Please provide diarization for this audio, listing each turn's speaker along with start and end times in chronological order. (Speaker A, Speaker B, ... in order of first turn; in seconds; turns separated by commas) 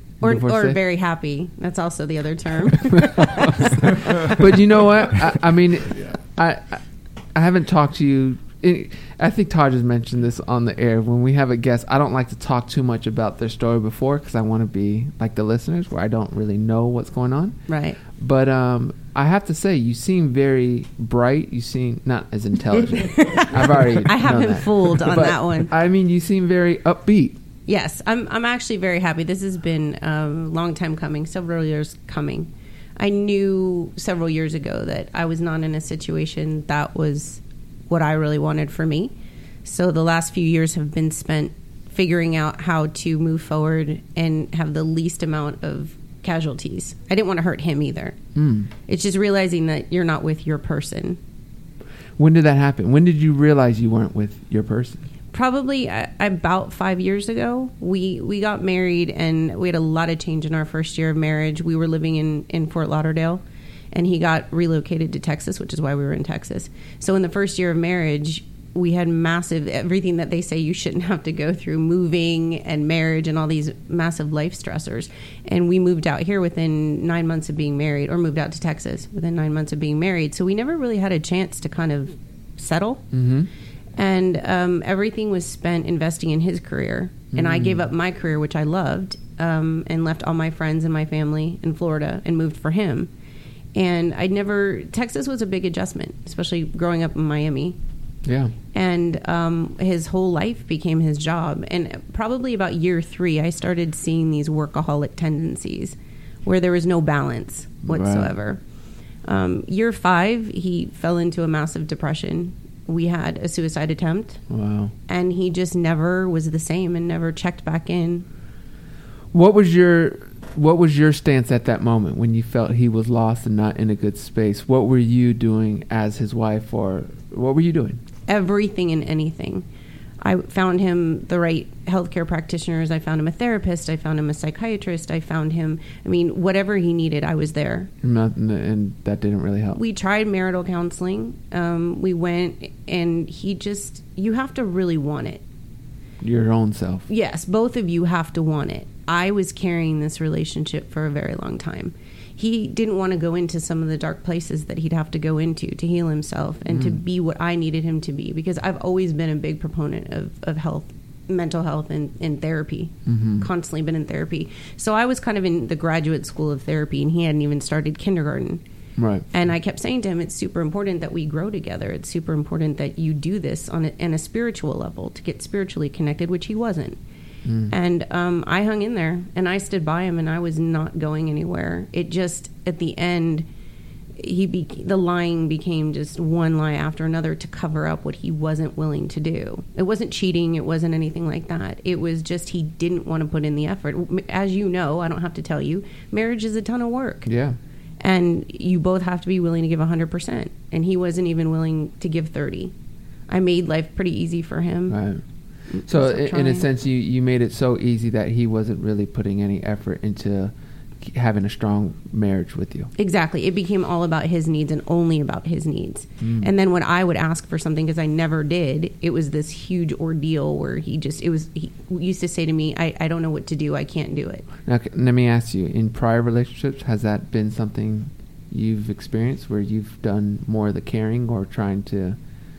Speaker A: 0.2-4.5, Speaker B: 0.2-0.8, Speaker B: 2.9-6.8, Speaker B: 7.3-17.6, Speaker A: 17.7-18.0, Speaker B: 18.1-27.4, Speaker A: 23.0-25.7, Speaker A: 27.7-39.1, Speaker A: 39.6-48.2, Speaker B: 48.3-48.7, Speaker A: 48.9-51.2, Speaker B: 52.2-55.0, Speaker A: 55.3-83.0, Speaker B: 83.1-83.5, Speaker A: 84.0-93.1, Speaker B: 87.3-87.9, Speaker A: 93.7-97.8, Speaker B: 98.2-98.5, Speaker A: 98.7-108.6, Speaker B: 107.8-108.3, Speaker A: 109.2-114.4, Speaker B: 114.5-114.9, Speaker A: 115.1-118.2, Speaker B: 119.3-128.0, Speaker A: 128.3-129.6, Speaker A: 130.2-137.9, Speaker B: 138.0-139.8, Speaker A: 139.7-145.4, Speaker B: 146.2-147.1, Speaker A: 147.1-168.6, Speaker B: 156.7-157.0, Speaker B: 163.1-163.5, Speaker B: 169.0-169.2, Speaker A: 169.3-177.0, Speaker B: 177.4-177.7, Speaker A: 177.7-183.4, Speaker A: 184.2-197.3, Speaker B: 197.2-197.6, Speaker A: 198.0-202.7, Speaker A: 203.3-205.0, Speaker B: 204.9-205.2, Speaker A: 205.7-206.7, Speaker B: 205.8-212.9, Speaker A: 213.0-224.4, Speaker B: 216.2-216.5, Speaker B: 224.7-232.2